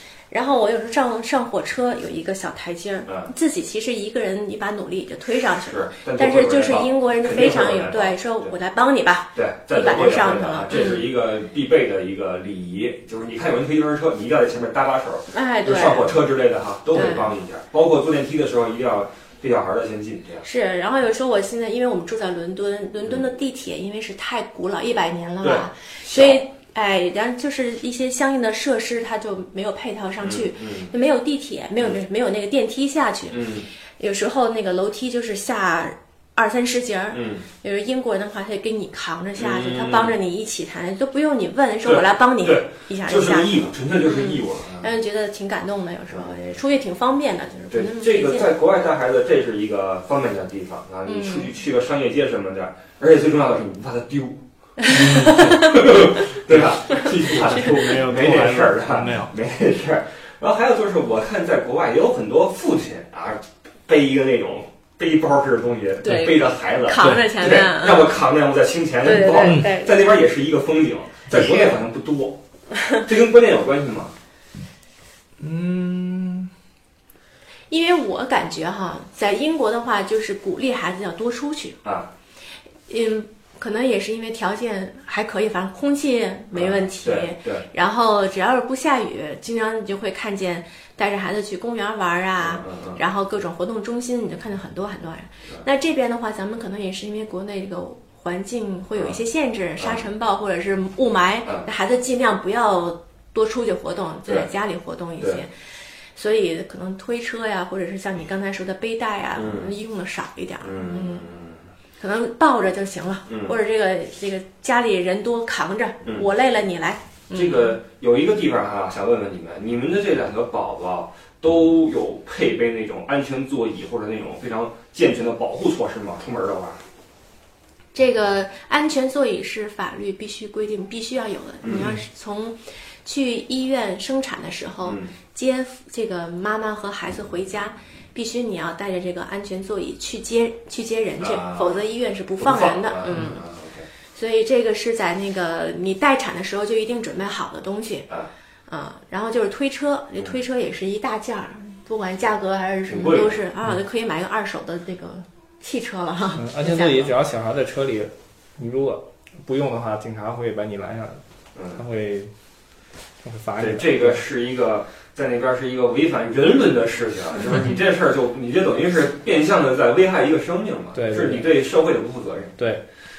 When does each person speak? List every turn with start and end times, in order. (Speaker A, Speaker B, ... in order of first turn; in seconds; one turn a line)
Speaker A: 0.3-11.0
Speaker B: 5.6-8.5
Speaker B: 9.3-20.4
Speaker A: 15.3-16.2
Speaker A: 16.9-17.3
Speaker A: 20.4-48.5
Speaker B: 25.4-26.4
Speaker B: 30.2-30.9
Speaker B: 33.3-33.7
Speaker B: 37.1-37.4
Speaker B: 39.4-40.1
Speaker B: 41.9-44.9
Speaker B: 46.1-46.4
Speaker B: 47.7-72.4
Speaker A: 51.1-51.5
Speaker A: 54.8-56.1
Speaker C: 54.9-59.3
Speaker A: 66.0-68.2
Speaker A: 69.0-70.0
Speaker C: 69.4-69.7
Speaker A: 71.3-71.8
Speaker B: 73.0-74.1
Speaker C: 75.4-76.5
Speaker A: 77.7-81.8
Speaker B: 81.8-82.1
Speaker A: 82.9-105.5
Speaker B: 86.5-87.6
Speaker B: 92.4-93.0
Speaker A: 106.1-111.3
Speaker B: 109.4-109.7
Speaker B: 110.6-111.6
Speaker A: 112.0-117.8
Speaker B: 113.3-113.5
Speaker B: 117.3-126.8
Speaker A: 127.9-143.4
Speaker B: 131.6-131.9
Speaker B: 134.9-135.1
Speaker B: 141.2-141.8
Speaker B: 142.4-143.9
Speaker A: 144.1-148.1
Speaker A: 148.7-157.1
Speaker B: 152.9-153.4
Speaker C: 156.4-161.2
Speaker B: 161.6-161.8
Speaker C: 161.8-162.3
Speaker C: 163.2-164.2
Speaker B: 163.6-172.5
Speaker C: 170.9-171.5
Speaker C: 172.6-172.8